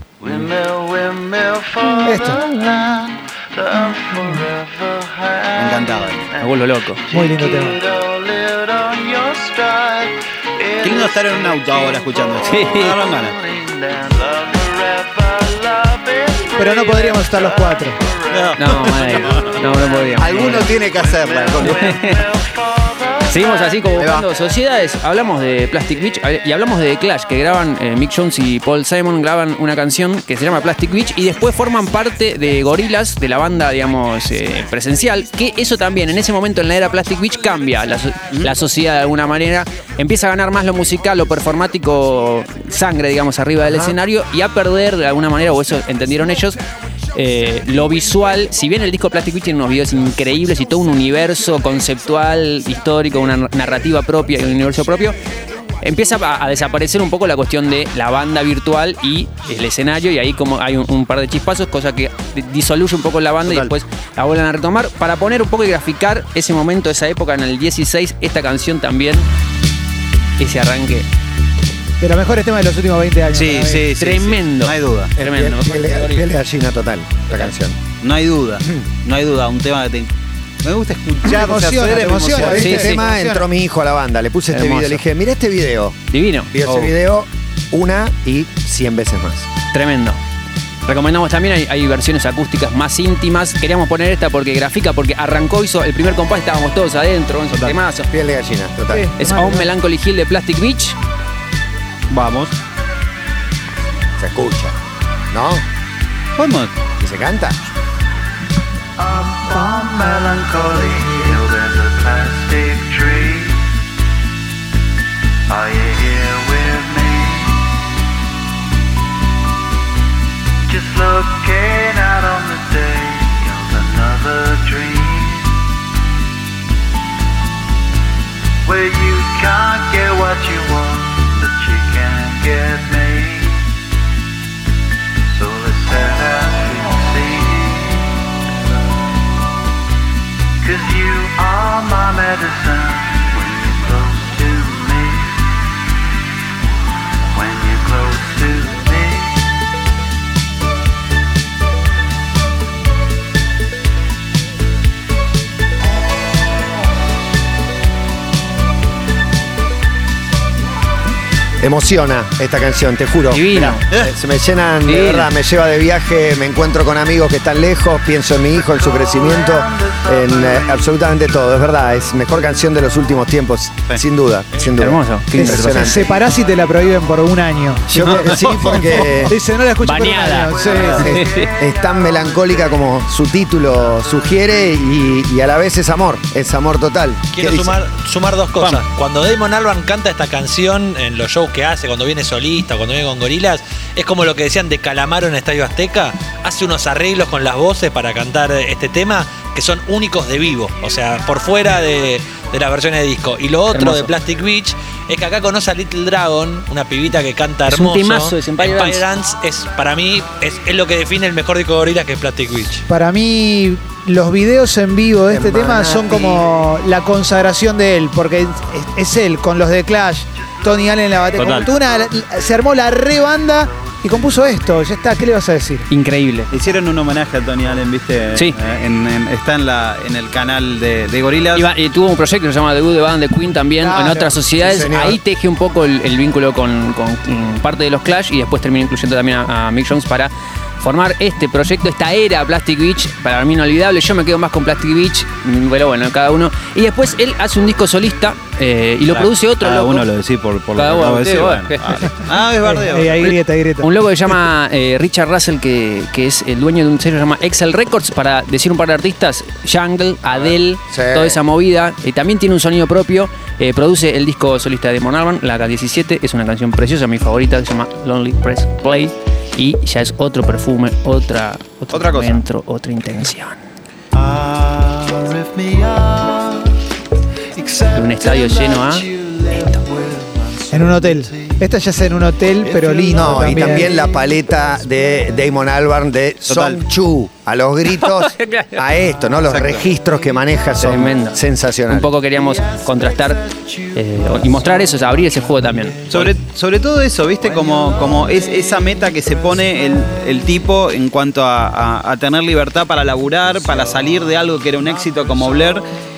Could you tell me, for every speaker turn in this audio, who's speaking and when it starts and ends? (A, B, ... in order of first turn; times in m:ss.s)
0:00.2-0:24.0 A
0:02.0-0:02.4 B
0:05.6-0:06.2 C
0:06.4-0:07.0 D
0:07.1-0:07.8 B
0:10.8-0:13.3 C
0:12.4-0:13.0 D
0:16.6-0:18.0 B
0:18.3-0:19.5 C
0:18.6-0:20.7 D
0:20.2-0:22.0 C
0:21.6-0:22.2 D
0:23.3-0:46.6 D
0:24.0-0:24.2 C
0:43.6-0:43.9 E
0:47.1-0:55.2 D
0:55.8-1:09.3 D
1:03.4-1:03.7 C
1:10.4-1:11.1 D
1:12.0-1:13.8 B
1:13.3-1:15.1 C
1:14.0-1:16.3 D
1:15.2-1:17.8 E
1:18.0-1:20.1 C
1:20.6-1:22.8 C
1:21.2-1:23.4 B
1:22.3-1:29.5 E
1:22.6-1:23.0 D
1:24.5-1:25.0 D
1:26.1-1:26.5 D
1:26.6-1:26.9 C
1:29.7-1:30.2 D
1:30.8-1:38.1 D
1:37.5-1:37.8 C
1:38.1-1:39.1 E
1:38.9-1:39.7 B
1:39.2-1:41.0 D
1:42.1-1:42.5 C
1:44.2-1:44.8 E
1:45.3-1:45.6 E
1:46.4-1:46.7 C
1:47.0-1:47.6 E
1:49.0-1:53.7 A
1:55.5-1:57.7 A
2:00.7-2:05.6 A
2:08.6-2:13.6 A
2:15.3-2:19.2 A
2:20.6-2:25.7 A
2:27.3-2:29.6 A
2:41.6-2:56.1 E
2:43.3-2:43.8 D
2:44.8-2:45.3 D
2:48.5-2:51.4 A
2:54.8-2:56.0 D
2:55.3-3:01.2 B
2:56.2-2:56.6 A
2:57.9-2:59.4 E
2:57.9-2:59.2 D
2:59.8-3:01.5 D
3:00.6-3:03.0 A
3:00.9-3:07.8 E
3:07.3-3:32.8 F
3:08.6-3:08.8 D
3:23.7-3:24.1 D
3:27.7-3:29.0 D
3:32.9-3:45.9 B
3:35.3-3:36.4 E
3:40.6-3:45.0 A
3:41.4-3:41.7 C
3:45.9-3:46.5 D
3:46.5-3:51.7 C
3:51.5-4:00.3 D
3:53.8-3:54.4 B
3:54.6-3:55.2 E
4:00.8-4:10.1 D
4:09.1-4:13.4 C
4:10.7-4:12.1 D
4:12.6-4:13.9 B
4:13.8-4:33.6 D
4:20.9-4:21.4 E
4:31.9-4:32.4 C
4:34.1-4:36.7 A
4:37.5-4:41.7 A
4:37.9-4:39.7 D
4:40.7-4:43.9 B
4:42.7-4:45.2 A
4:43.1-4:52.1 E
4:46.4-4:46.8 C
4:48.0-4:48.8 D
4:49.4-4:49.8 C
4:50.8-4:53.4 D
4:52.2-4:56.3 A
4:53.9-4:56.3 D
4:56.1-5:05.9 C
4:57.4-4:59.7 A
5:04.8-5:05.9 A